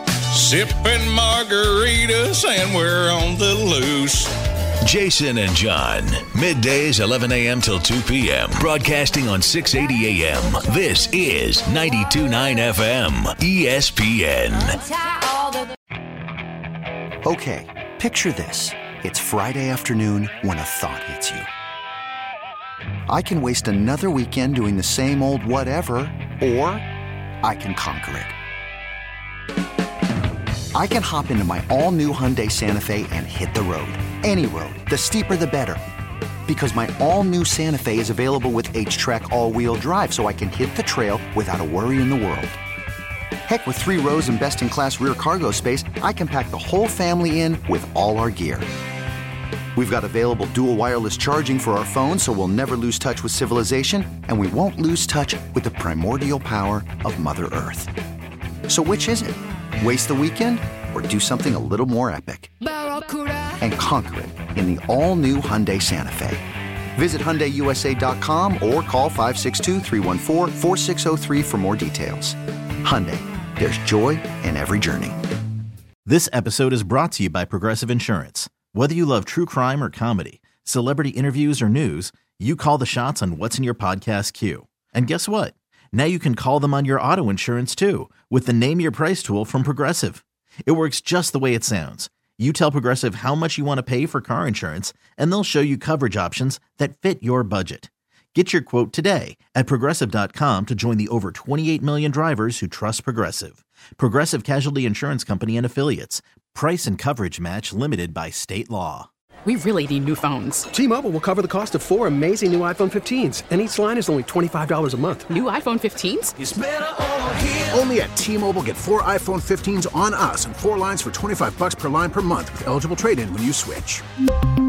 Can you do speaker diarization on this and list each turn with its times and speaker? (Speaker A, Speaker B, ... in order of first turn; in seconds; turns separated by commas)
Speaker A: 0.3-4.3, Speaker B: 4.8-14.8, Speaker C: 17.2-21.5, Speaker C: 23.1-26.8, Speaker C: 27.4-28.4, Speaker C: 30.7-35.8, Speaker C: 36.5-42.6, Speaker C: 43.5-48.7, Speaker C: 49.8-57.9, Speaker C: 58.7-62.5, Speaker C: 63.6-66.4, Speaker C: 67.0-75.2, Speaker D: 76.0-109.1, Speaker E: 109.5-110.7, Speaker F: 110.7-115.3, Speaker E: 115.3-116.3, Speaker G: 117.7-124.0